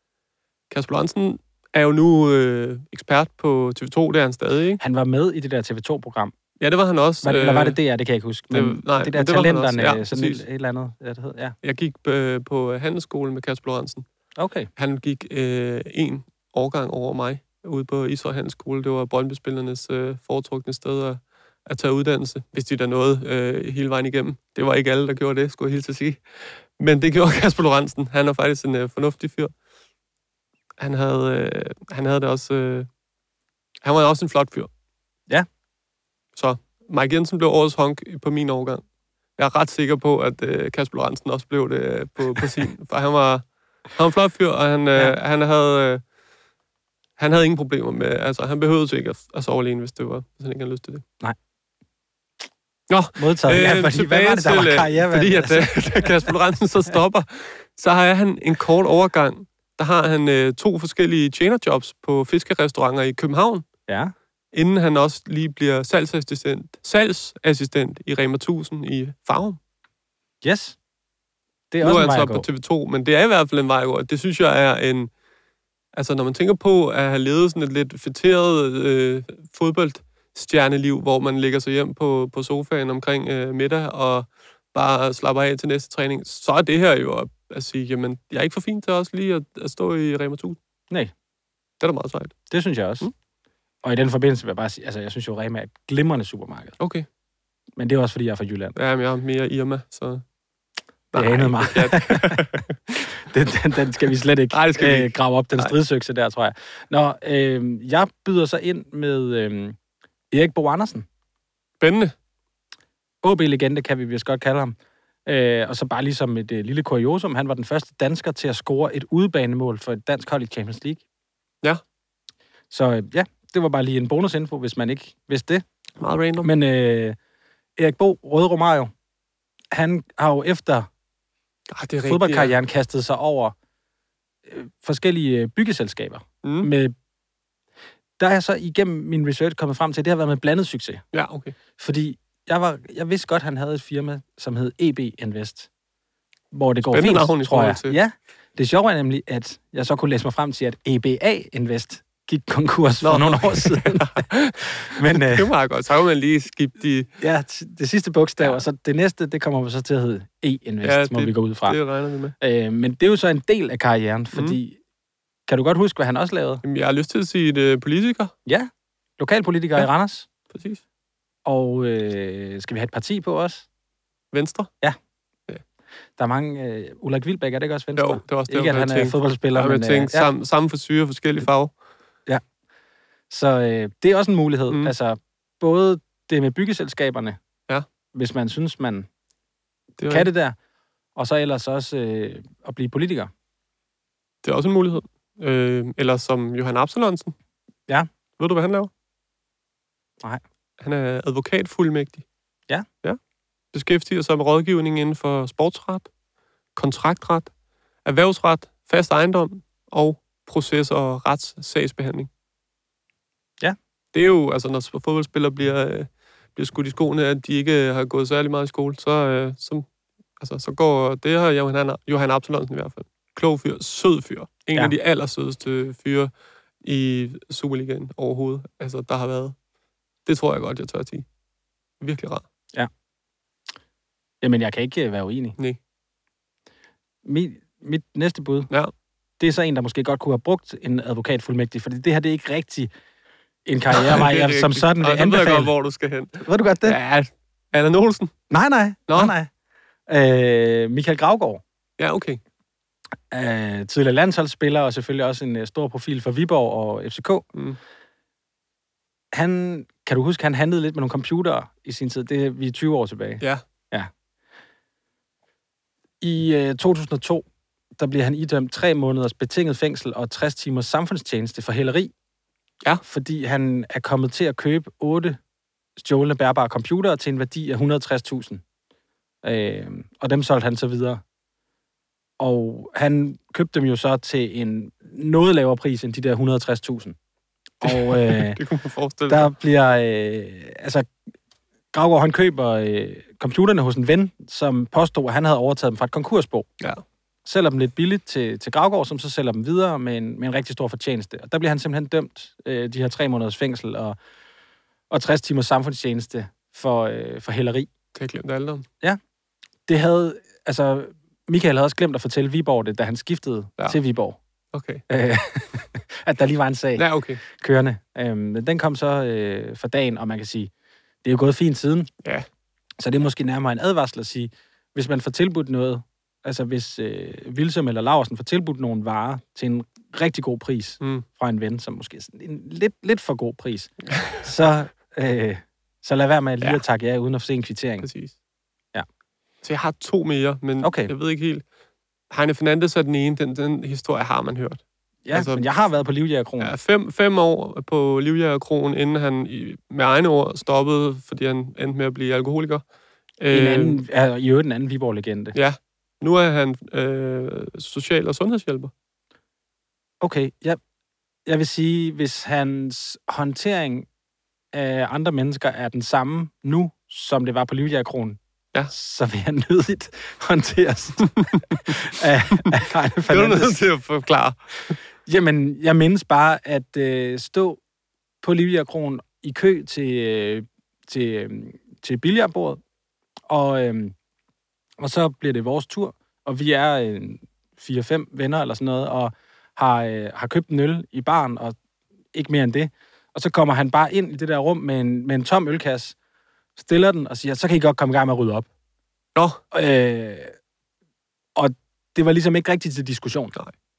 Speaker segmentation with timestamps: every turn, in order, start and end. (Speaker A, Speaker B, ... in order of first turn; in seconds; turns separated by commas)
Speaker A: 0.7-4.8, Speaker B: 4.8-6.3, Speaker A: 6.6-7.8, Speaker B: 7.2-11.6, Speaker A: 8.5-10.4, Speaker A: 11.6-14.1, Speaker B: 14.4-14.7, Speaker A: 14.8-29.5, Speaker A: 30.8-32.9, Speaker A: 33.8-34.7, Speaker A: 36.4-38.8, Speaker A: 39.4-46.0, Speaker A: 47.2-51.0, Speaker A: 52.9-63.7, Speaker B: 53.2-55.9, Speaker B: 63.9-64.2, Speaker A: 64.5-69.6, Speaker B: 70.4-70.8, Speaker B: 71.7-72.5, Speaker A: 71.8-75.1, Speaker A: 75.9-90.6, Speaker A: 91.8-92.5, Speaker B: 92.5-93.1, Speaker B: 93.8-96.8, Speaker A: 96.8-97.1, Speaker B: 97.8-98.8, Speaker A: 98.8-100.2, Speaker A: 101.1-102.7, Speaker B: 101.2-102.5, Speaker B: 103.2-109.8, Speaker A: 104.5-105.8, Speaker B: 110.3-111.1, Speaker A: 111.8-112.1, Speaker B: 113.2-114.8, Speaker B: 115.3-121.0, Speaker B: 122.7-125.6, Speaker A: 126.0-126.5, Speaker B: 126.4-127.2, Speaker B: 127.8-128.9, Speaker B: 129.7-130.9, Speaker A: 131.7-132.5, Speaker B: 132.0-133.5, Speaker B: 134.5-136.9, Speaker A: 136.4-136.7, Speaker B: 138.2-141.0, Speaker A: 141.1-141.5, Speaker B: 141.8-145.7, Speaker B: 146.5-155.5, Speaker A: 146.9-148.0, Speaker A: 153.0-157.1, Speaker B: 157.2-161.8, Speaker A: 160.8-162.3, Speaker B: 162.4-164.8, Speaker B: 165.5-166.6, Speaker A: 166.6-168.3, Speaker B: 168.5-170.3, Speaker A: 170.5-170.8, Speaker B: 171.4-173.7, Speaker A: 174.3-174.7, Speaker B: 176.2-180.3, Speaker A: 178.0-181.8, Speaker B: 183.3-187.4, Speaker B: 188.1-189.1, Speaker A: 190.0-190.3, Speaker B: 190.1-190.6, Speaker B: 191.2-193.3, Speaker A: 194.4-197.3, Speaker A: 198.4-198.9, Speaker A: 200.8-202.2, Speaker A: 203.7-206.1, Speaker A: 206.8-207.5, Speaker A: 208.1-212.3, Speaker A: 214.1-219.9, Speaker A: 220.4-226.3, Speaker A: 226.8-229.6, Speaker A: 230.3-231.3, Speaker A: 232.0-232.4, Speaker B: 234.4-235.6, Speaker B: 237.2-238.7, Speaker B: 239.4-242.9, Speaker B: 243.7-245.7, Speaker A: 243.9-248.3, Speaker B: 246.4-247.0, Speaker B: 248.5-249.5, Speaker A: 249.1-249.3, Speaker B: 250.1-251.6, Speaker A: 252.0-252.4, Speaker B: 253.3-257.5, Speaker B: 259.3-264.1, Speaker B: 266.2-267.4, Speaker B: 268.0-272.1, Speaker B: 273.0-275.4, Speaker B: 276.0-278.6, Speaker B: 279.4-281.2, Speaker B: 282.4-287.2, Speaker B: 287.8-288.6, Speaker A: 287.8-289.5, Speaker B: 289.3-291.1, Speaker B: 291.9-296.7, Speaker B: 297.4-304.2, Speaker B: 305.1-307.9, Speaker A: 308.1-308.9, Speaker B: 309.9-314.4, Speaker A: 314.7-315.0, Speaker B: 315.1-320.7, Speaker A: 317.0-317.4, Speaker B: 321.2-322.1, Speaker B: 323.0-338.1, Speaker A: 338.0-338.4, Speaker A: 339.6-341.6, Speaker B: 340.8-341.1, Speaker A: 342.3-345.6, Speaker B: 345.3-346.8, Speaker A: 346.6-352.9, Speaker A: 353.4-354.0, Speaker B: 353.5-355.6, Speaker A: 355.5-358.9, Speaker B: 360.2-360.8, Speaker B: 361.5-364.1, Speaker B: 364.7-373.8, Speaker A: 373.3-375.0, Speaker B: 375.3-377.8, Speaker B: 378.4-382.8, Speaker B: 383.5-384.1, Speaker B: 385.0-391.8, Speaker B: 392.3-396.1, Speaker B: 396.8-398.7, Speaker A: 399.4-399.6, Speaker B: 399.7-400.6, Speaker B: 401.6-403.6